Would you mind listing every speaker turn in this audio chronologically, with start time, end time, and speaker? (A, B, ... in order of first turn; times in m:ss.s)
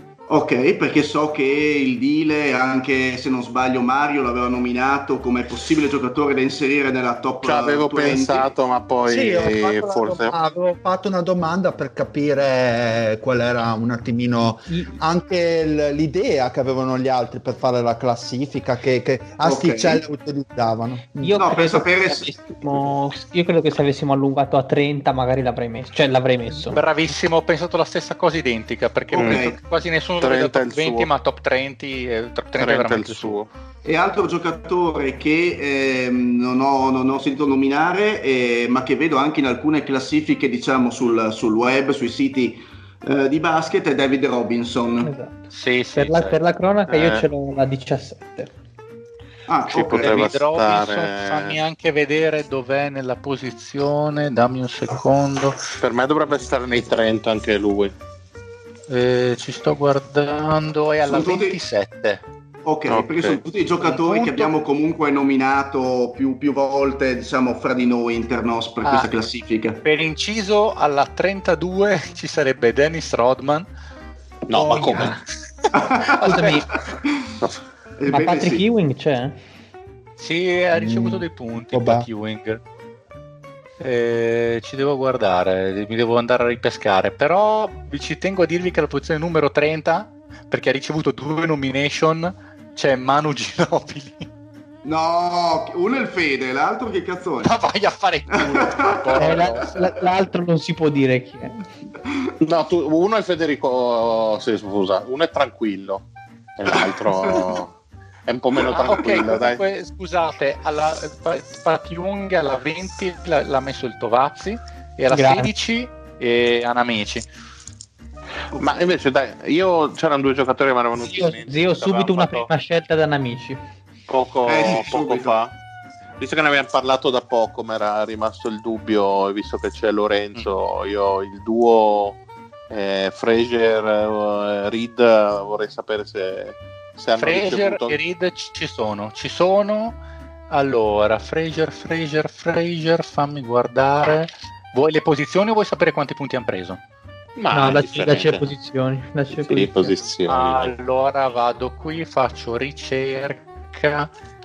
0:00.3-0:08.5 A
0:07.4-0:10.4 B
0:09.1-0:21.4 C
0:14.7-0:15.0 D
0:19.4-0:20.0 A
0:21.2-0:26.8 D
0:21.4-0:22.3 A
0:26.7-0:33.4 E
0:29.1-0:29.6 A
0:29.2-0:29.5 B
0:30.2-0:31.1 B
0:32.6-0:33.5 B
0:33.8-0:45.1 A
0:45.0-0:48.5 D
0:45.5-0:46.4 E
0:46.9-0:47.3 B
0:49.5-0:50.3 A
0:49.7-0:51.6 B
0:49.7-0:55.6 E
0:55.8-0:58.0 B
0:58.9-1:02.2 E
1:01.1-1:01.6 A
1:02.6-1:09.8 A
1:02.9-1:03.4 B
1:03.8-1:04.5 E
1:08.8-1:09.1 E
1:09.8-1:13.7 E
1:14.5-1:15.2 B
1:14.5-1:15.2 D
1:14.6-1:15.2 E
1:15.7-1:17.3 A
1:16.1-1:16.8 E
1:16.2-1:16.7 D
1:18.0-1:18.6 A
1:18.1-1:19.4 D
1:20.2-1:22.6 E
1:20.7-1:22.1 C
1:23.8-1:34.3 E
1:34.8-1:37.5 A
1:37.4-1:40.0 E
1:38.4-1:39.8 A
1:39.2-1:41.6 D
1:42.1-1:42.3 A
1:42.4-1:46.0 B
1:46.6-1:47.7 B
1:46.7-1:47.4 A
1:48.3-1:49.6 B
1:48.6-1:57.2 E
1:55.1-1:55.5 D
1:58.5-1:58.9 A
1:58.6-2:02.5 B
2:01.1-2:03.6 D
2:04.1-2:05.6 B
2:04.5-2:05.4 A
2:06.2-2:12.2 B
2:12.7-2:18.0 B
2:17.2-2:20.0 E
2:20.5-2:26.8 E
2:27.4-2:28.5 B
2:27.5-2:30.0 D
2:29.3-2:30.7 B
2:30.3-2:34.1 E